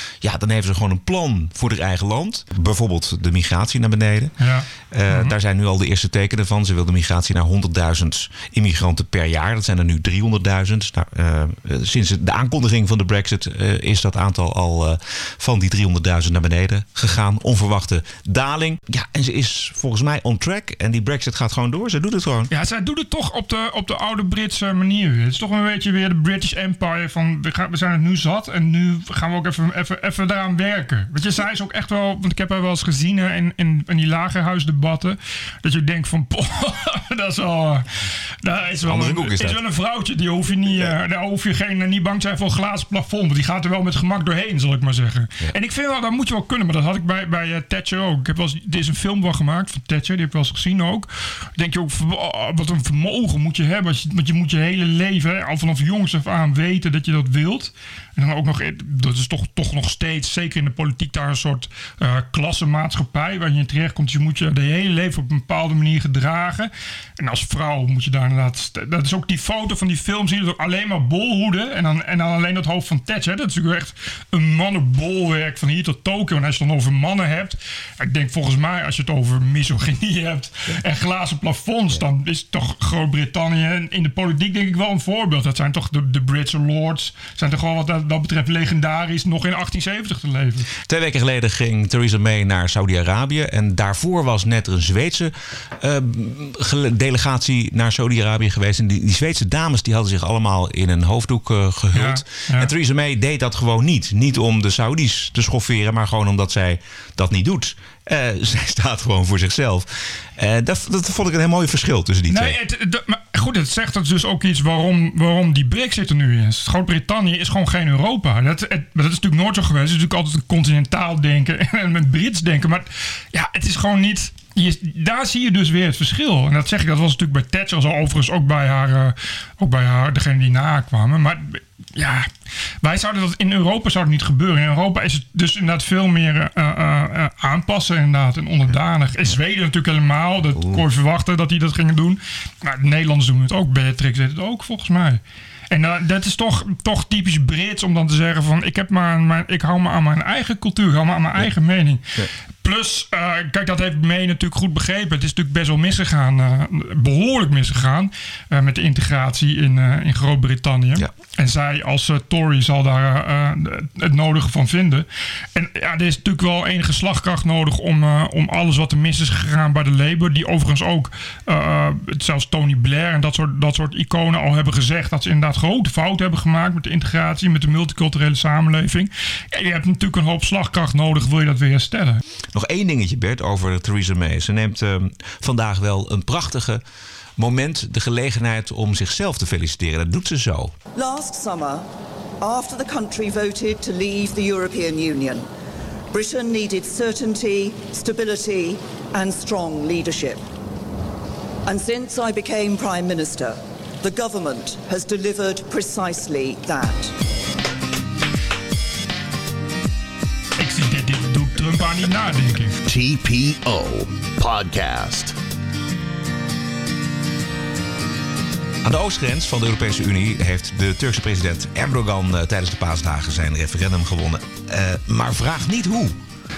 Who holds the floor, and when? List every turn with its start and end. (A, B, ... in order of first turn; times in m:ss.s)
0:00.2-0:04.4 A
0:04.4-0:05.3 B
0:04.9-0:22.5 A
0:22.5-1:30.7 B
0:38.8-0:39.6 A
1:30.8-1:52.6 A
1:41.9-1:42.7 B
1:52.3-2:12.3 B
2:12.8-2:32.0 B
2:20.6-2:20.8 A
2:32.6-3:02.2 B
3:02.5-3:06.8 A
3:07.4-3:10.8 A
3:11.0-3:11.9 C
3:12.4-3:15.5 C
3:16.1-3:20.4 C
3:21.7-3:27.2 C
3:30.6-3:32.8 B
3:32.8-3:35.4 D
3:38.8-3:46.2 A